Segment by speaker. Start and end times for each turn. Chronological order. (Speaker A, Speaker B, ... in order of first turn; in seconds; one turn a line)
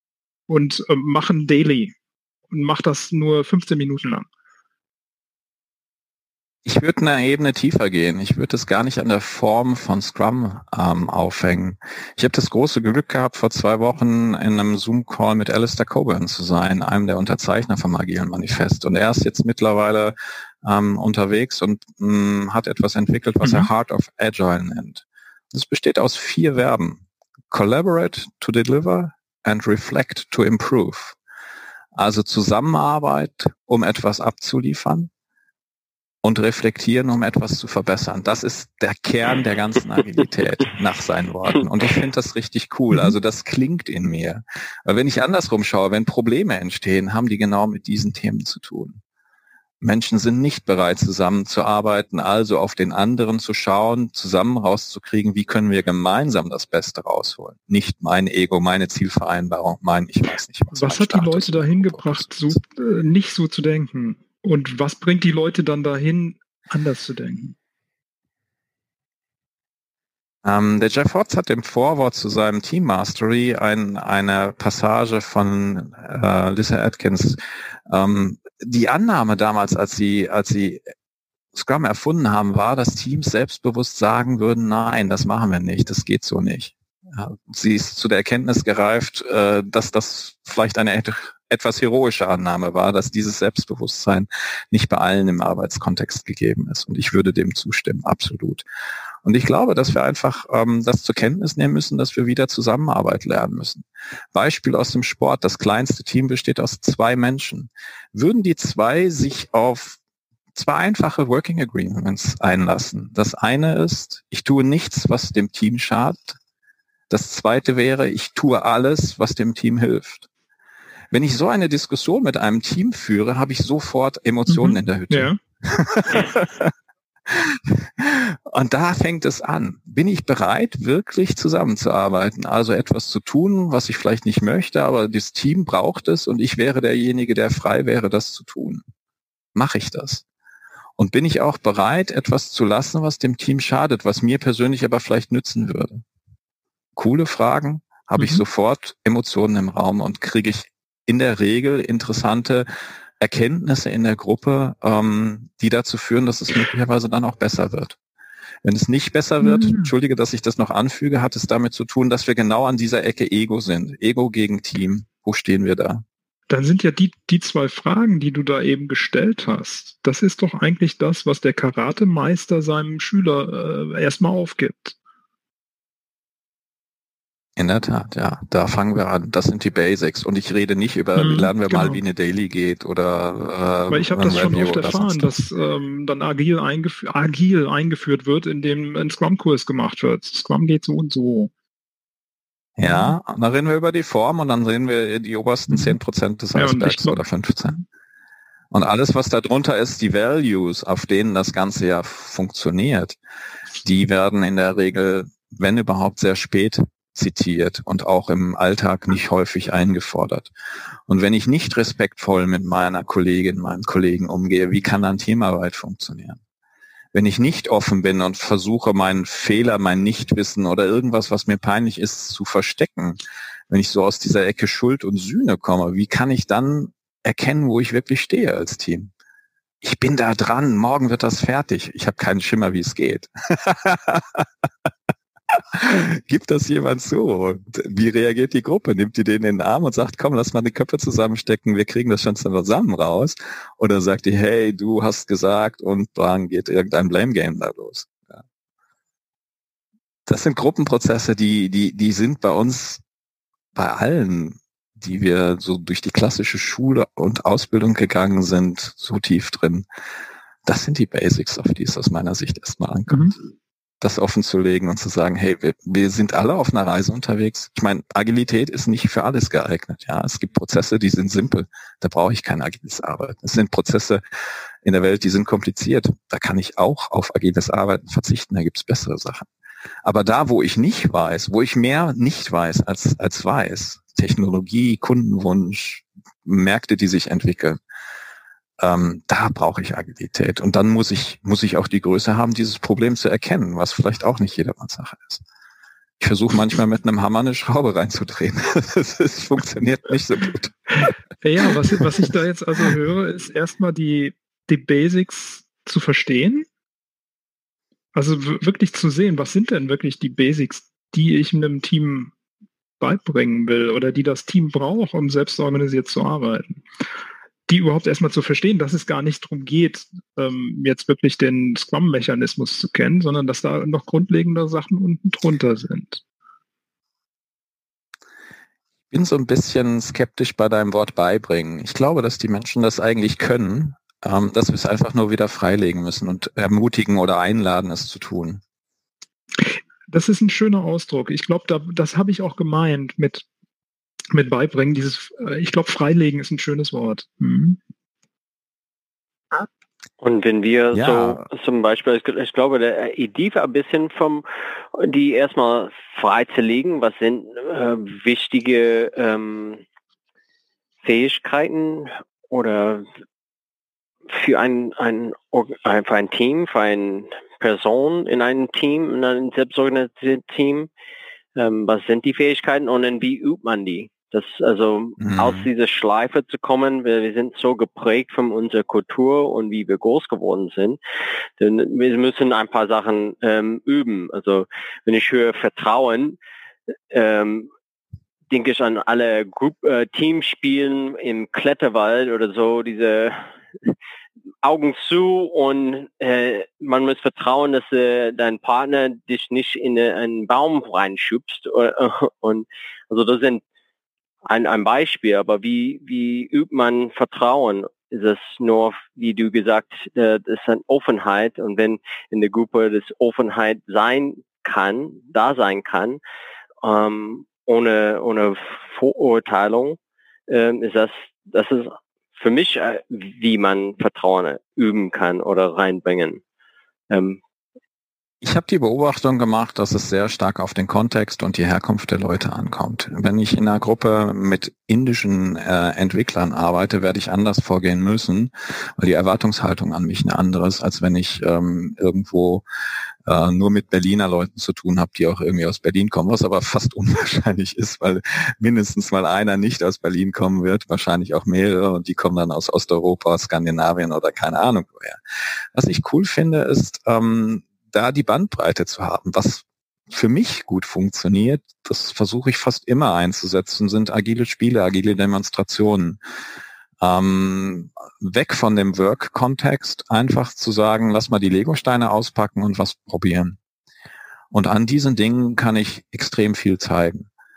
Speaker A: 0.5-1.9
Speaker A: 2.5-4.3
Speaker B: 6.7-31.2
Speaker A: 23.4-23.7
Speaker B: 31.9-35.1
Speaker B: 36.2-49.0
Speaker A: 42.9-43.2
Speaker B: 49.8-62.6
Speaker A: 60.7-67.6
Speaker B: 70.4-80.9
Speaker B: 81.5-98.7
Speaker B: 99.2-110.0
Speaker B: 110.5-116.4
Speaker B: 117.1-120.3
Speaker B: 121.1-126.7
Speaker A: 124.5-125.4
Speaker B: 127.3-138.8
Speaker B: 139.6-140.2
Speaker B: 141.0-146.0
Speaker B: 147.0-152.7
Speaker A: 148.2-148.4
Speaker B: 153.2-158.0
Speaker B: 158.6-166.0
Speaker A: 159.4-159.9
Speaker A: 166.5-175.0
Speaker B: 177.6-185.4
Speaker A: 181.2-182.0
Speaker A: 183.9-191.5
Speaker B: 192.8-197.8
Speaker A: 192.8-193.2
Speaker A: 195.7-196.0
Speaker A: 196.6-197.2
Speaker B: 198.7-203.2
Speaker B: 203.8-210.5
Speaker B: 211.1-216.4
Speaker B: 217.1-229.1
Speaker B: 229.8-234.5
Speaker B: 235.5-248.4
Speaker B: 250.3-253.0
Speaker B: 253.8-259.9
Speaker B: 260.6-263.4
Speaker A: 263.1-263.4
Speaker B: 264.0-274.2
Speaker B: 274.8-279.5
Speaker B: 280.0-287.8
Speaker B: 288.8-295.4
Speaker B: 296.2-301.1
Speaker A: 300.9-306.7
Speaker A: 308.1-312.3
Speaker A: 313.0-316.8
Speaker A: 317.7-326.2
Speaker B: 329.1-338.6
Speaker A: 339.6-343.4
Speaker A: 344.3-347.8
Speaker C: 350.2-359.8
Speaker B: 350.9-351.4
Speaker C: 361.0-363.1
Speaker C: 364.3-370.9
Speaker C: 371.6-381.0
Speaker B: 375.2-375.7
Speaker C: 381.6-386.4
Speaker C: 387.1-387.7
Speaker C: 388.5-393.9
Speaker C: 394.6-403.6
Speaker C: 404.5-416.2
Speaker C: 416.8-426.4
Speaker C: 427.1-427.4
Speaker B: 428.4-442.6
Speaker B: 443.3-455.2
Speaker B: 455.7-466.2
Speaker B: 467.0-473.6
Speaker B: 474.5-477.3